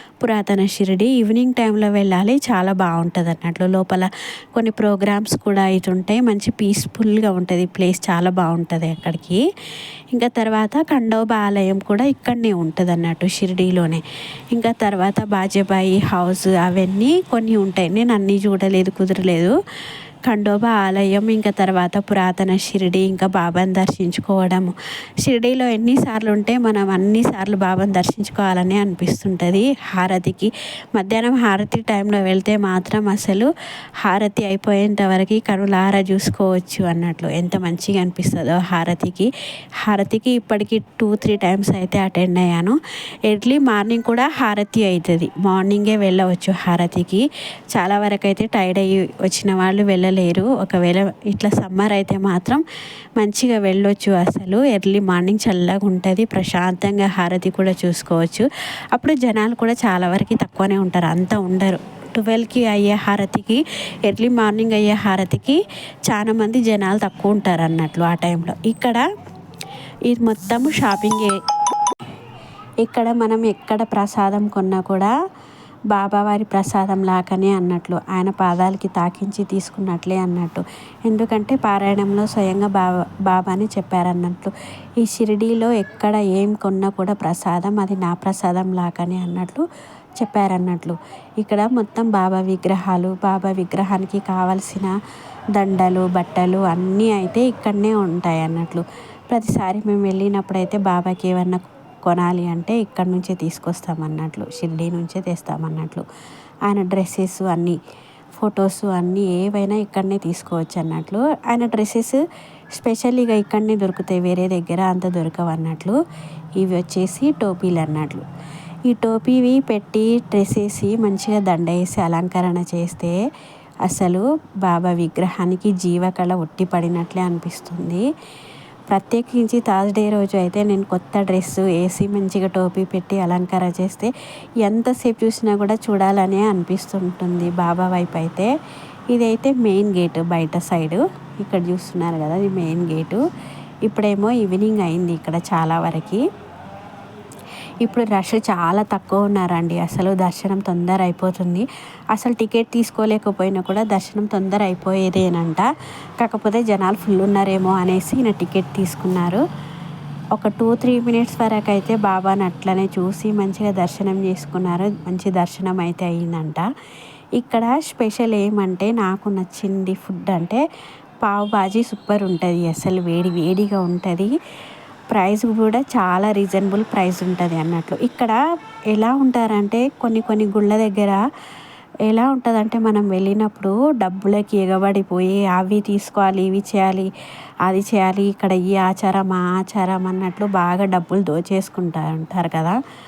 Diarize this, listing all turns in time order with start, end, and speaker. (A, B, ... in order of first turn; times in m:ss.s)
0:00.2-0:09.4 A
0:10.1-0:19.5 A
0:20.3-0:24.7 A
0:25.2-0:33.5 A
0:34.0-0:39.3 A
0:39.8-0:42.8 A
0:43.3-0:52.6 A
0:53.2-1:09.0 A
1:10.1-1:11.4 A
1:12.8-1:15.1 A
1:15.9-1:29.6 A
1:30.2-1:34.9 A
1:35.5-1:46.0 A
1:46.7-1:47.8 A
1:48.4-1:52.2 A
1:52.7-1:56.0 A
1:56.6-1:58.2 A
1:58.9-2:03.2 A
2:03.9-2:08.0 A
2:08.9-2:14.1 A
2:14.6-2:18.5 A
2:19.1-2:23.2 A
2:23.9-2:26.2 A
2:27.8-2:35.7 A
2:36.2-2:39.4 A
2:40.4-2:46.6 A
2:47.4-2:50.6 A
2:51.2-2:54.3 A
2:55.1-2:58.4 A
2:58.9-3:01.2 A
3:02.1-3:07.1 A
3:07.6-3:12.8 A